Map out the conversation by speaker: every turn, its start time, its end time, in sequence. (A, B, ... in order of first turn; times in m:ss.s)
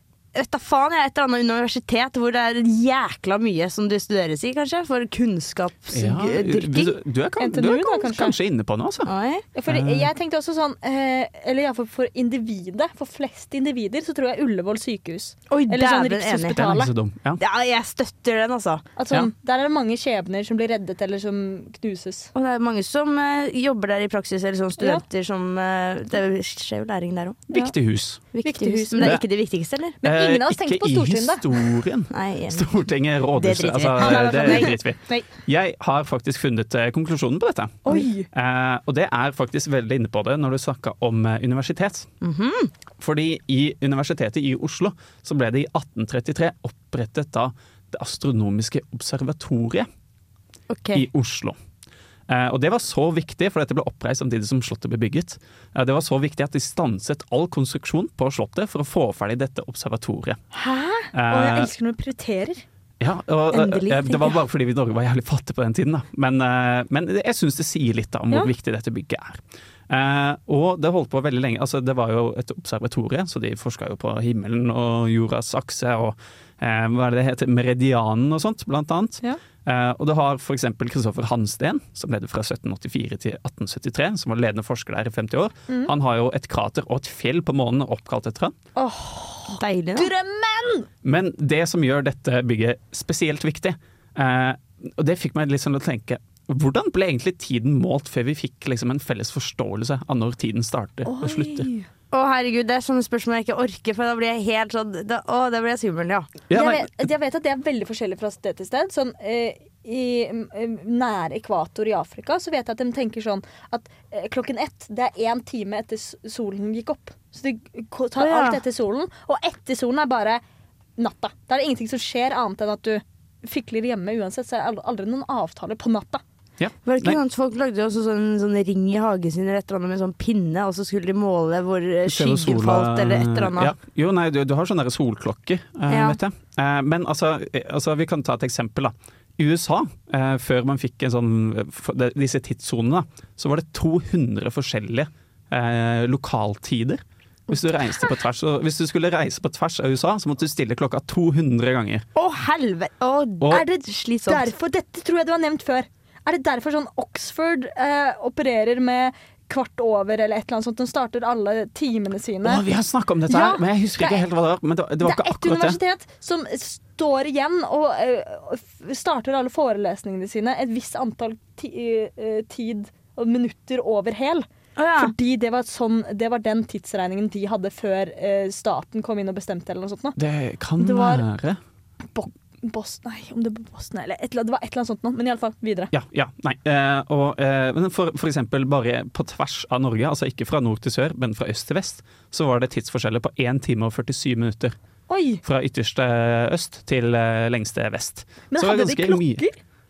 0:00.3-0:07.0 A
0:05.9-0:09.1 B
0:07.4-0:08.4 C
0:09.0-0:09.5 A
0:09.6-0:16.9 C
0:09.7-0:10.1 B
0:15.5-0:16.6 A
0:16.5-0:17.4 B
0:17.4-0:18.8 A
0:19.0-0:22.3 C
0:22.3-0:27.4 A
0:27.5-0:28.3 B
0:28.3-0:30.0 A
0:28.4-0:29.2 C
0:29.0-0:29.3 B
0:30.0-0:42.1 B
0:30.0-0:31.6 C
0:32.1-0:32.7 A
0:33.3-0:34.8 A
0:34.0-0:35.3 C
0:37.9-0:38.3 C
0:42.2-0:42.7 A
0:43.0-0:49.9 B
0:50.7-0:51.1 A
0:50.9-0:51.6 B
0:52.3-1:00.4 B
1:00.9-1:02.6 C
1:01.1-1:01.7 B
1:03.0-1:28.5 B
1:03.5-1:04.4 A
1:28.8-1:30.9 C
1:29.5-1:30.1 A
1:31.0-1:41.7 B
1:41.1-1:41.9 C
1:42.1-1:46.3 A
1:46.5-1:47.1 B
1:46.5-2:00.4 C
1:58.2-1:58.6 A
2:01.0-2:06.2 C
2:06.6-2:07.2 B
2:06.9-2:13.7 A
2:12.1-2:32.0 B
2:15.9-2:16.2 A
2:32.2-2:34.5 A
2:33.5-2:42.6 C
2:42.4-2:45.8 B
2:43.3-2:44.2 C
2:45.0-2:54.4 C
2:54.8-2:55.1 A
2:55.0-3:00.2 C
3:00.2-3:01.6 B
3:00.8-3:01.2 C
3:02.2-3:05.9 C
3:05.9-3:14.8 B
3:15.1-3:15.4 C
3:15.4-3:19.4 B
3:18.5-3:19.6 C